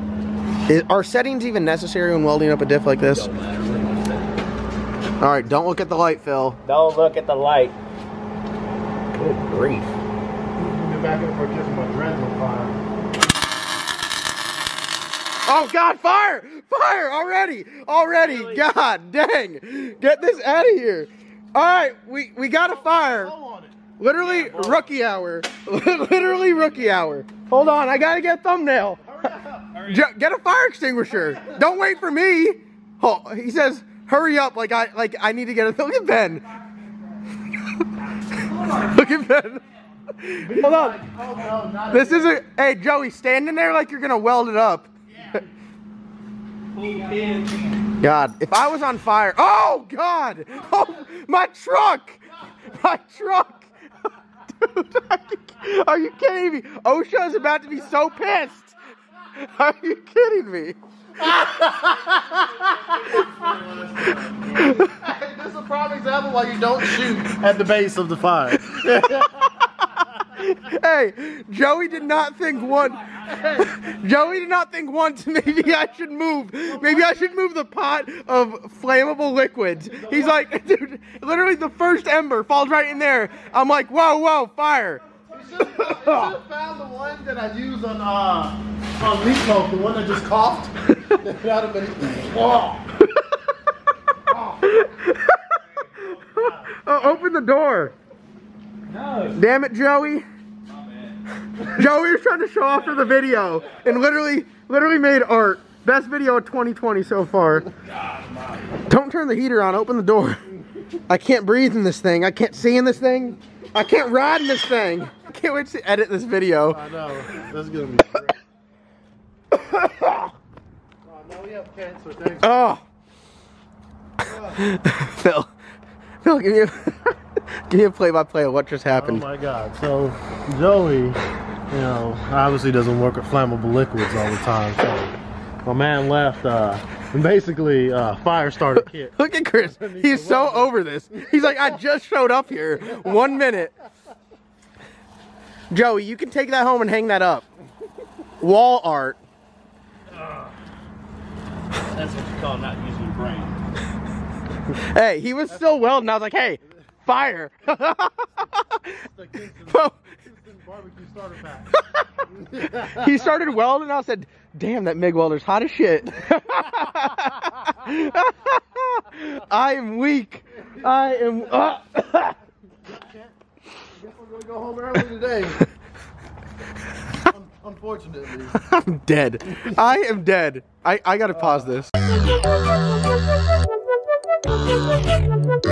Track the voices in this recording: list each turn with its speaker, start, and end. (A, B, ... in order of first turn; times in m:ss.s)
0:00.7-0:03.3 A
0:03.0-0:04.4 B
0:05.2-0:06.6 A
0:06.6-0:07.8 B
0:09.2-0:09.9 B
0:10.6-0:12.7 C
0:15.5-0:23.3 A
0:18.2-0:18.6 B
0:22.8-0:23.8 C
0:24.0-0:29.2 A
0:24.2-0:24.9 B
0:29.2-0:29.6 C
0:29.7-0:30.0 B
0:29.9-0:36.5 A
0:38.6-0:39.6 A
0:40.2-0:41.1 A
0:40.4-0:42.4 C
0:41.9-0:45.4 A
0:46.7-0:47.8 B
0:48.0-0:53.7 A
0:54.5-0:58.8 A
0:59.4-1:01.7 A
1:01.4-1:02.4 C
1:02.6-1:04.5 B
1:04.0-1:04.9 A
1:04.6-1:09.3 C
1:08.6-1:26.3 A
1:13.3-1:13.7 C
1:16.7-1:17.3 C
1:20.0-1:20.4 C
1:25.3-1:32.8 C
1:34.5-1:35.5 A
1:36.3-1:38.0 A
1:38.9-1:39.4 B
1:39.3-1:40.2 A
1:40.7-1:41.2 B
1:41.6-1:47.7 A
1:42.7-1:43.8 B
1:47.9-1:48.6 B
1:48.9-1:50.4 A
1:51.1-1:56.8 A
1:56.7-1:58.3 C
1:59.6-2:00.3 A
2:01.1-2:02.5 C
2:02.4-2:02.8 A
2:04.3-2:04.6 C
2:04.5-2:05.5 A
2:06.2-2:07.1 A
2:07.7-2:09.3 A
2:08.9-2:15.1 C
2:15.6-2:20.7 C
2:19.1-2:23.7 A
2:25.7-2:27.4 A
2:28.4-2:29.2 A
2:30.2-2:30.5 B
2:31.8-2:33.6 B
2:34.7-2:38.9 A
2:38.9-2:41.7 C
2:39.7-2:40.0 A
2:41.7-2:42.0 A
2:42.3-2:42.8 C
2:42.6-2:52.4 A
2:52.9-2:53.3 C
2:53.9-2:55.6 C
2:57.3-2:58.5 C
2:58.5-3:01.9 A